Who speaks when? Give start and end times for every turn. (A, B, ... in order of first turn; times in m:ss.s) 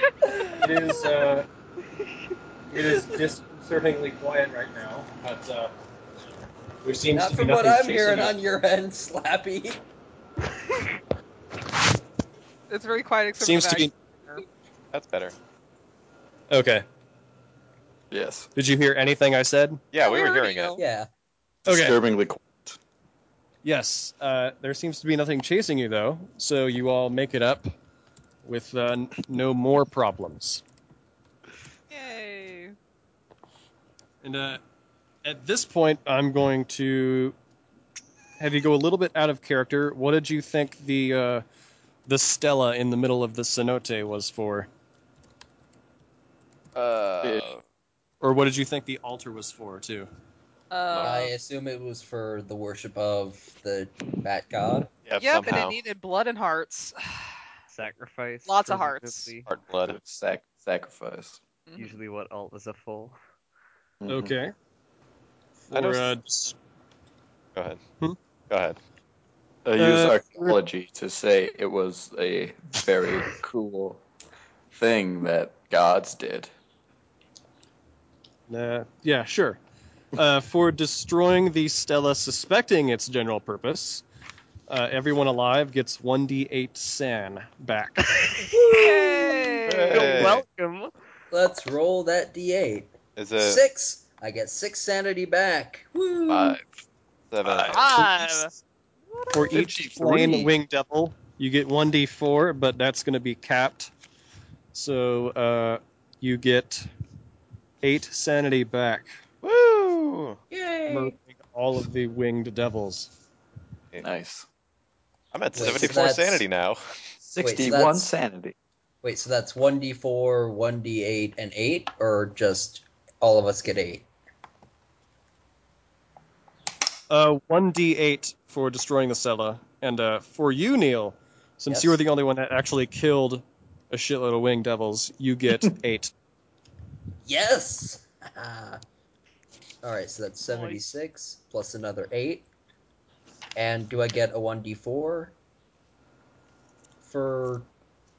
0:00.6-0:01.4 A
0:02.7-0:05.7 A
0:06.8-0:08.4 A
0:07.1-0:09.8 B
0:12.7-0:14.4 C
0:13.4-0:13.9 A
0:14.9-0:15.3 D
0:16.5-0:16.8 A
0:18.1-0:18.5 E
0:18.5-0:19.8 A
0:19.9-0:20.8 D
0:20.0-0:20.8 C
0:20.8-0:21.1 B
0:21.6-0:22.8 E
0:21.7-0:22.0 A
0:23.6-0:27.7 A
0:28.4-0:30.6 A
0:31.9-0:32.7 C
0:34.2-0:34.6 A
0:35.2-0:37.3 A
0:38.4-0:41.4 A
0:42.1-0:44.7 A
0:46.7-0:47.6 D
0:47.2-0:47.5 E
0:48.2-0:50.1 A
0:50.7-0:51.3 C
0:51.0-0:54.9 B
0:55.0-0:55.8 D
0:55.2-0:57.2 C
0:57.7-0:59.5 F
0:58.4-0:59.3 C
0:59.4-1:00.0 D
0:59.8-1:01.4 E
1:01.7-1:01.9 C
1:01.8-1:03.2 F
1:04.0-1:04.4 E
1:04.1-1:04.5 A
1:05.7-1:06.6 A
1:05.7-1:06.1 D
1:08.5-1:08.8 D
1:09.6-1:14.0 E
1:09.8-1:10.6 A
1:14.7-1:16.5 E
1:18.5-1:19.6 A
1:20.1-1:24.0 A
1:24.7-1:28.4 A
1:28.5-1:30.2 C
1:28.7-1:30.9 F
1:29.6-1:30.4 D
1:31.3-1:36.6 B
1:33.2-1:33.6 D
1:36.3-1:36.6 E
1:37.3-1:37.8 D
1:37.4-1:38.4 E
1:37.6-1:38.5 C
1:39.2-1:39.5 C
1:39.3-1:43.9 A
1:39.5-1:40.5 E
1:44.7-1:46.9 A
1:47.8-1:49.2 A
1:49.4-1:50.4 D
1:50.5-1:51.1 B
1:50.9-1:53.1 A
1:54.0-1:54.4 E
1:55.3-1:56.8 D
1:55.5-1:56.4 B
1:57.3-1:58.5 E
1:57.4-1:58.1 B
1:59.0-2:04.0 B
2:07.1-2:16.1 A
2:11.7-2:12.0 B
2:17.2-2:18.8 B
2:19.8-2:22.4 B
2:20.4-2:20.8 C
2:23.6-2:25.3 B
2:27.0-2:27.6 B